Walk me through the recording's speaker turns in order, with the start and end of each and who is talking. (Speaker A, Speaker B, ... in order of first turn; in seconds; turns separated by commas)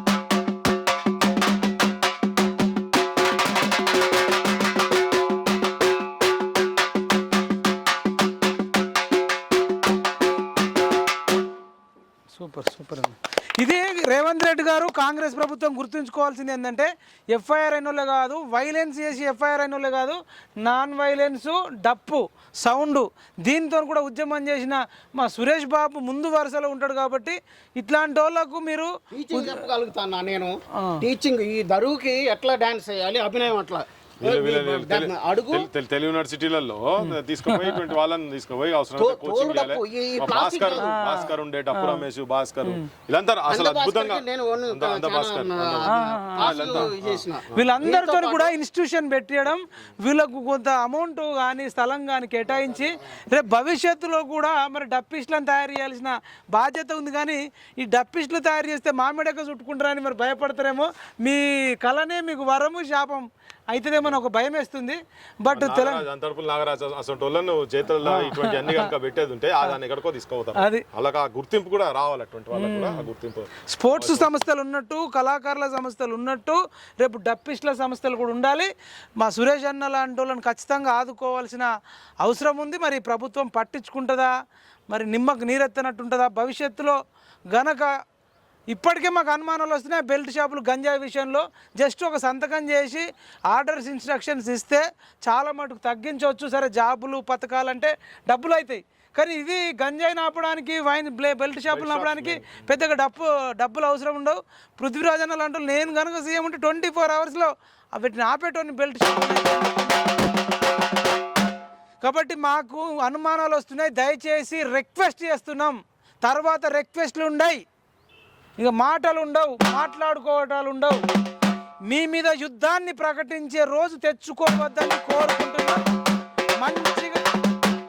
Speaker A: 12.3-29.6, Speaker B: 29.1-35.7, Speaker A: 30.8-31.0, Speaker C: 34.2-47.8, Speaker A: 37.0-37.9, Speaker B: 39.0-40.9, Speaker A: 40.8-42.0, Speaker B: 43.5-48.5, Speaker A: 45.9-46.9, Speaker A: 47.5-66.0, Speaker C: 65.5-74.4, Speaker A: 68.0-68.9, Speaker A: 70.5-70.8, Speaker A: 72.5-73.1, Speaker A: 73.7-81.7, Speaker A: 82.2-84.3, Speaker A: 84.9-87.0, Speaker A: 87.5-87.9, Speaker A: 88.7-110.2, Speaker C: 101.7-102.7, Speaker A: 112.0-117.6, Speaker A: 118.6-121.0, Speaker A: 121.9-125.8, Speaker A: 126.6-127.2